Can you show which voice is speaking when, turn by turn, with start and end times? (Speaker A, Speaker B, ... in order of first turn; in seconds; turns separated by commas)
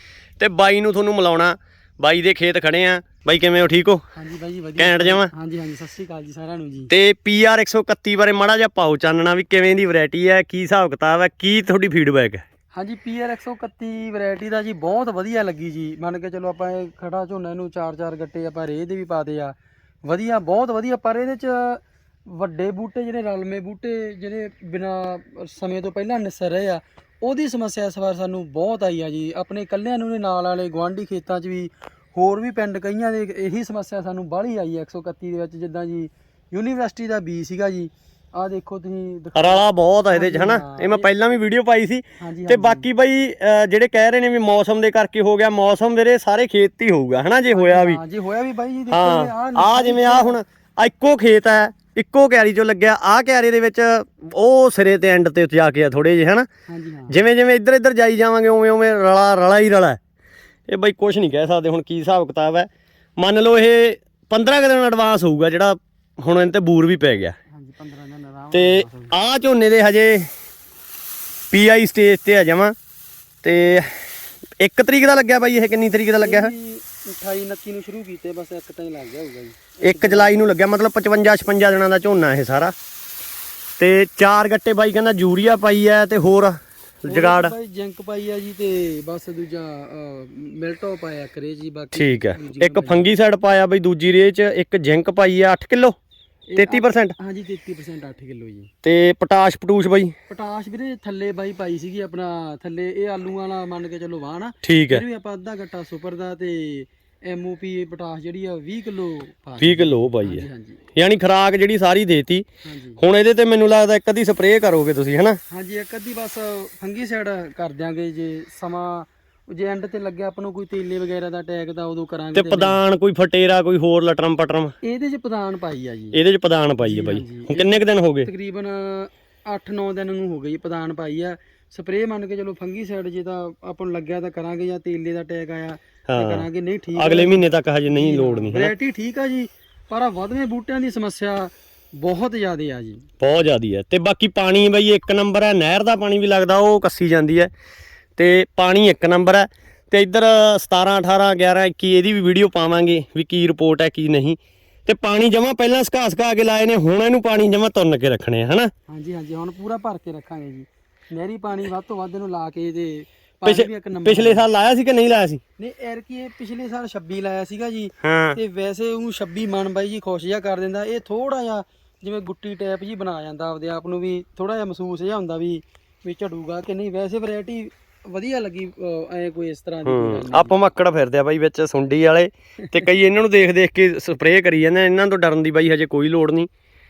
Speaker A: 0.4-4.0, Speaker B: 4.2-6.9, Speaker A: 4.8-5.3, Speaker A: 6.9-12.4, Speaker B: 12.8-19.6, Speaker B: 20.1-41.1, Speaker A: 39.4-48.0, Speaker B: 42.2-42.9, Speaker B: 47.5-50.4, Speaker A: 48.9-56.5, Speaker B: 56.7-57.2, Speaker A: 57.1-60.0, Speaker A: 60.7-67.4, Speaker B: 67.5-69.2, Speaker A: 68.5-70.3, Speaker A: 71.5-72.8, Speaker A: 73.4-73.9, Speaker A: 74.6-76.5, Speaker B: 76.2-80.5, Speaker A: 79.8-82.7, Speaker A: 83.8-87.5, Speaker B: 87.1-93.1, Speaker A: 91.9-96.0, Speaker B: 96.5-98.7, Speaker A: 96.6-97.2, Speaker A: 98.8-100.2, Speaker B: 100.3-110.8, Speaker A: 104.6-105.0, Speaker A: 109.6-110.5, Speaker A: 111.0-112.5, Speaker B: 112.6-113.0, Speaker A: 113.0-115.4, Speaker B: 115.5-122.8, Speaker A: 122.3-124.7, Speaker B: 124.8-126.2, Speaker A: 126.1-128.3, Speaker B: 126.8-143.1, Speaker A: 136.1-138.7, Speaker A: 143.2-147.5, Speaker A: 148.2-158.7, Speaker B: 158.9-164.5, Speaker A: 163.4-165.4, Speaker B: 165.6-180.6, Speaker A: 168.0-168.4, Speaker A: 179.9-186.5